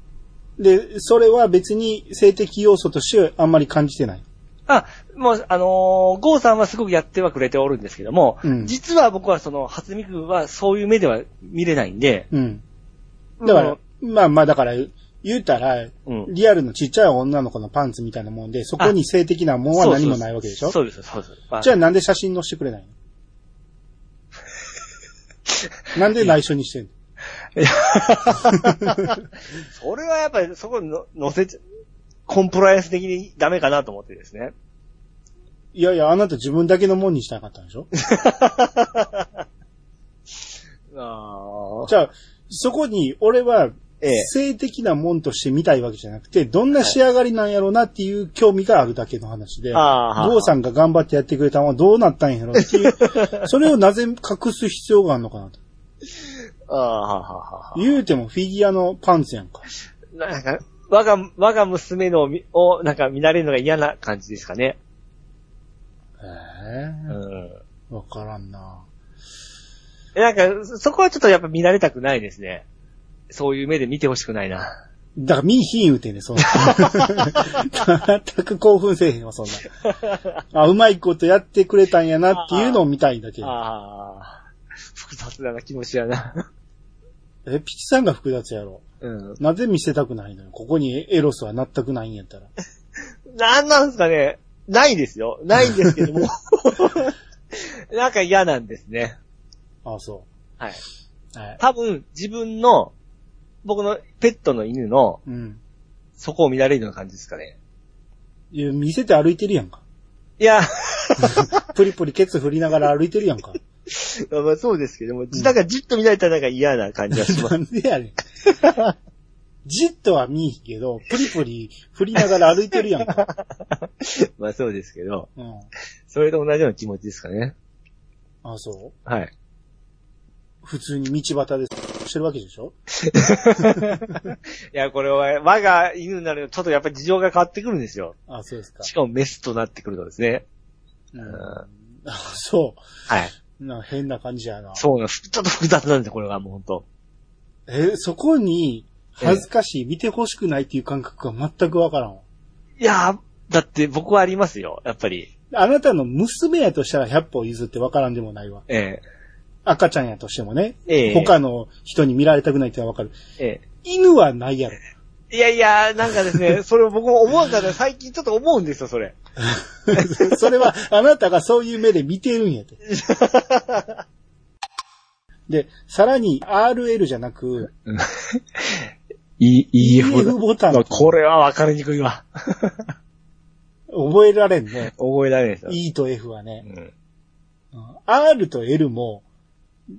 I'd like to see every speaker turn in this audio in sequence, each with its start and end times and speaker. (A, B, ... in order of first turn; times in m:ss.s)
0:00.6-0:04.2 A
0:04.7-0:12.3 B
0:08.4-0:08.8 A
0:12.3-0:12.6 A
0:13.4-0:13.8 B
0:13.4-0:20.8 A
0:19.8-0:21.8 B
0:21.6-0:22.9 A
0:25.5-0:26.3 B
0:26.0-0:26.9 A
0:27.6-0:31.6 B
0:32.3-0:34.5 B
0:35.7-0:37.9 A
0:38.0-0:39.3 B
0:40.9-0:41.9 B
0:41.9-0:55.6 A
0:44.0-0:44.3 B
0:49.7-0:50.5 B
0:52.6-0:53.4 B
0:56.7-0:57.9 B
0:57.8-0:59.6 A
1:00.1-1:04.8 B
1:06.2-1:07.2 A
1:07.1-1:07.6 B
1:07.9-1:08.8 A
1:10.2-1:12.7 B
1:13.3-1:14.7 B
1:15.2-1:19.7 A
1:16.4-1:17.8 B
1:19.8-1:20.3 B
1:20.5-1:23.5 A
1:22.3-1:22.8 B
1:23.4-1:24.4 B
1:24.9-1:26.5 B
1:27.4-1:28.8 A
1:29.0-1:29.4 B
1:29.4-1:32.5 A
1:33.3-1:39.2 B
1:39.8-1:40.3 A
1:41.3-1:41.6 A
1:41.6-1:42.9 B
1:43.6-1:45.2 B
1:45.3-1:45.6 A
1:46.2-1:47.6 B
1:48.5-1:49.8 A
1:50.4-1:51.7 B
1:51.6-1:53.6 A
1:53.9-1:57.6 B
1:57.1-1:58.2 A
1:58.5-1:59.0 B
1:59.6-2:03.3 A
2:03.2-2:05.3 B
2:05.4-2:05.7 A
2:06.1-2:07.6 B
2:08.4-2:09.0 A
2:09.1-2:09.3 B
2:10.6-2:12.7 A
2:13.0-2:18.2 B
2:13.8-2:14.3 A
2:18.3-2:18.9 A
2:18.8-2:20.5 B
2:21.1-2:22.8 A
2:21.3-2:21.6 B
2:23.6-2:24.8 A
2:24.8-2:26.8 B
2:27.7-2:32.2 A
2:32.8-2:35.3 B
2:35.5-2:38.6 A
2:38.7-2:39.0 B
2:39.6-2:43.2 A
2:40.9-2:41.4 B
2:43.4-2:43.6 B
2:43.8-2:44.8 A
2:45.3-2:49.2 B
2:49.4-2:52.8 A
2:49.9-2:50.4 B
2:52.9-2:54.0 B
2:55.5-2:57.7 A
2:57.9-2:58.9 B
2:59.4-3:02.9 B
2:59.8-3:01.2 A
3:03.9-3:04.9 A
3:04.8-3:05.8 B
3:05.7-3:06.6 A
3:06.6-3:06.9 B
3:07.7-3:09.2 A